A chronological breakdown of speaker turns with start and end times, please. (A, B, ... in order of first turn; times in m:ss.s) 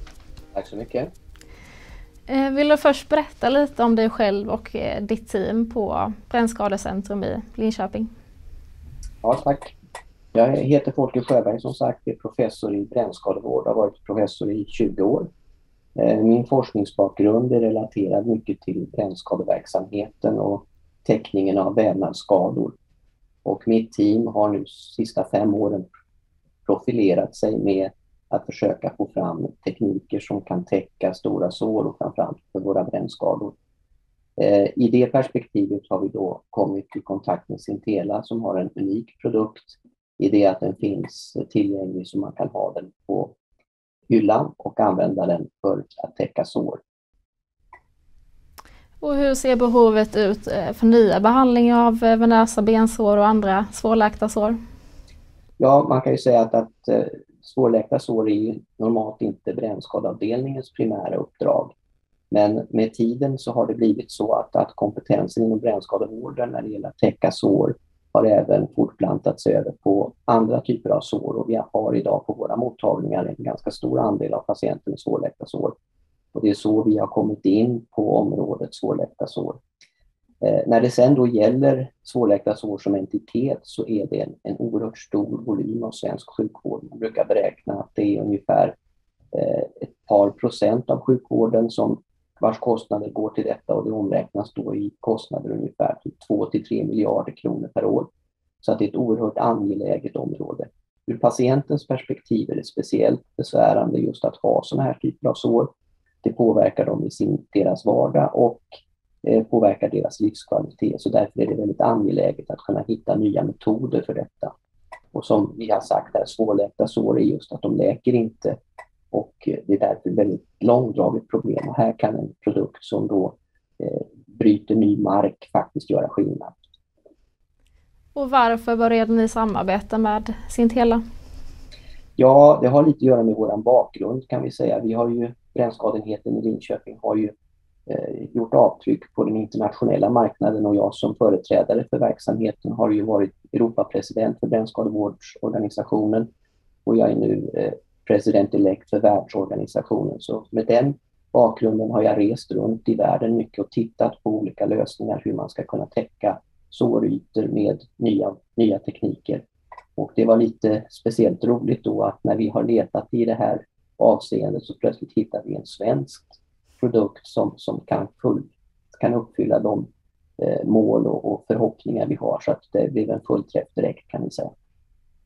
0:00.5-0:01.1 A
0:02.3-0:08.1 B
0:09.2-0:09.7 A
0:10.3-0:15.3 A
0:16.0-0:22.7 A
0:23.4-0:25.8 A
0:26.6-0:33.5 A
0:34.4-0:43.4 A
0:44.1-0:46.8 A
0:49.0-0:54.6 B
0:55.6-1:01.7 A
1:02.3-1:15.7 A
1:16.3-1:19.6 A
1:20.4-1:28.7 A
1:29.3-1:38.1 A
1:38.6-1:45.7 A
1:46.2-1:48.7 A
1:49.2-1:54.5 A
1:55.1-1:58.6 A
1:59.1-2:06.6 A
2:08.1-2:11.0 B
2:12.2-2:17.3 A
2:17.9-2:26.3 A
2:26.8-2:39.4 A
2:40.0-2:49.9 A
2:50.4-2:54.5 A